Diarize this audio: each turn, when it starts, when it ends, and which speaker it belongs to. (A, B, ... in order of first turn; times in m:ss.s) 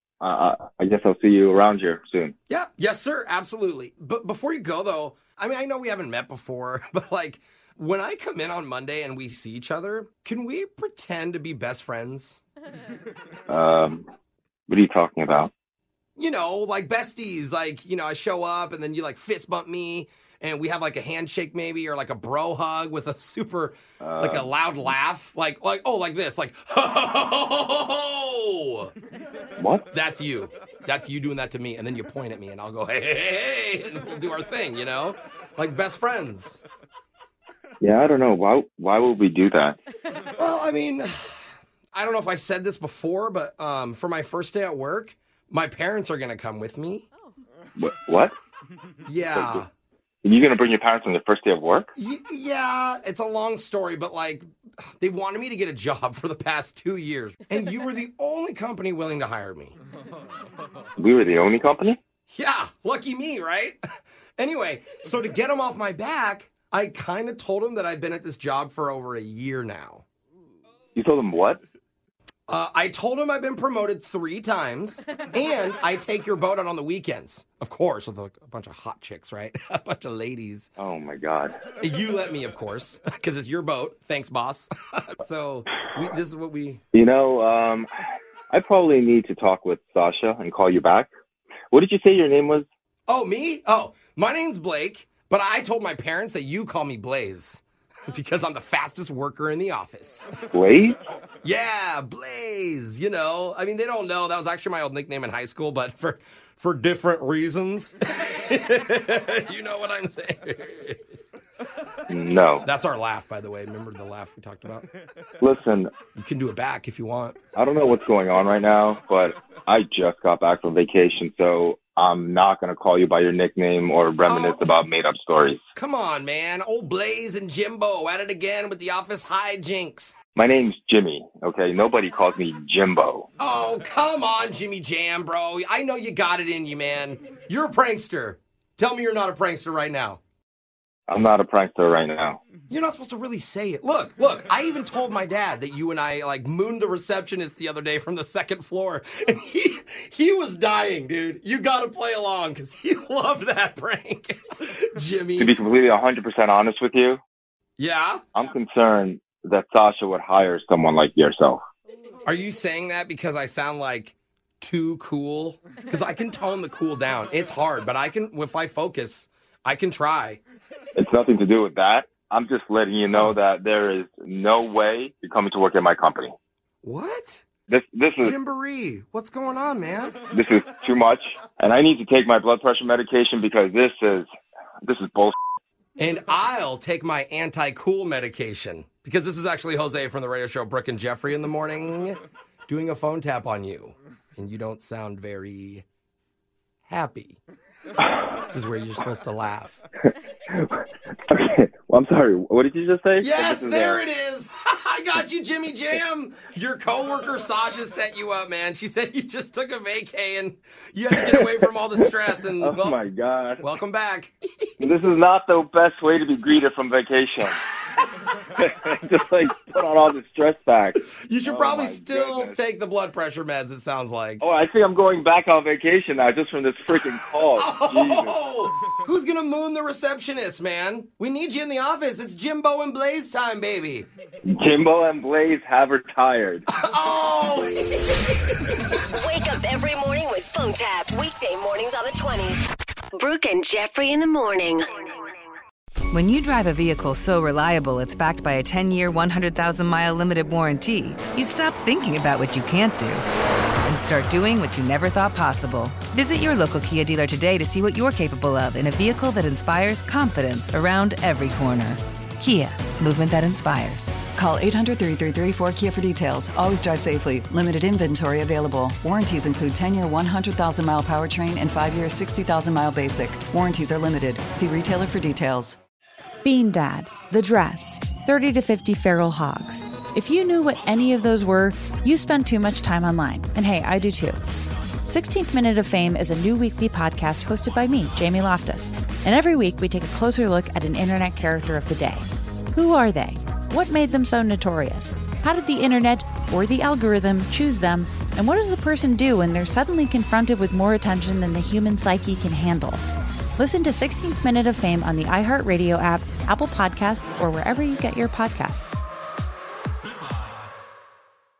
0:00.2-0:02.3 A
0:02.5-0:12.4 B
0:13.5-0:14.0 A
0:14.7-0:15.5 A
0:16.2-0:28.9 B
0:24.0-0:24.5 A
0:29.6-0:29.8 A
0:29.9-0:36.6 B
0:37.8-0:39.8 A
0:40.4-0:47.1 B
0:47.8-0:48.3 A
0:49.0-0:49.7 B
0:49.3-0:49.6 A
0:50.2-0:51.9 A
0:52.0-0:54.5 B
0:55.0-0:59.7 B
1:01.0-1:02.0 A
1:02.3-1:03.8 B
1:04.4-1:10.0 B
1:11.0-1:11.6 A
1:12.5-1:20.7 B
1:20.8-1:21.6 A
1:21.8-1:26.8 B
1:26.9-1:27.9 A
1:28.5-1:31.1 A
1:31.7-1:32.6 A
1:33.1-1:40.3 B
1:40.5-1:41.0 A
1:41.4-1:51.0 B
1:52.1-1:52.6 A
1:52.6-1:54.9 B
1:55.4-1:55.9 A
1:56.2-1:57.4 B
1:57.5-2:05.6 A
2:04.2-2:04.7 B
2:05.7-2:10.1 B
2:10.3-2:13.2 A
2:13.4-2:20.2 B
2:21.1-2:22.4 A
2:22.7-2:35.6 B
2:35.4-2:37.2 A
2:37.8-2:38.2 B
2:38.3-2:41.6 A
2:42.2-2:50.4 B
2:51.0-2:56.3 A
2:56.8-2:57.4 B
2:57.7-2:58.4 A
2:58.2-3:00.2 B
3:00.3-3:04.3 A
3:04.8-3:05.4 A
3:06.0-3:15.8 B
3:16.9-3:17.4 B
3:18.4-3:19.8 B
3:21.3-3:24.0 A
3:23.2-3:33.0 B
3:32.6-3:33.6 A
3:33.6-3:34.4 B
3:34.8-3:37.6 A
3:38.6-3:42.6 A
3:41.0-3:44.4 B
3:44.4-3:48.4 A
3:47.4-3:54.1 B
3:54.5-3:56.6 A
3:56.7-3:58.0 B
3:59.2-4:02.6 C
4:03.2-4:05.1 C
4:06.1-4:13.2 D
4:13.8-4:24.1 D
4:24.3-4:35.8 E
4:36.4-4:44.4 F
4:45.1-5:03.0 F
5:03.6-5:09.0 F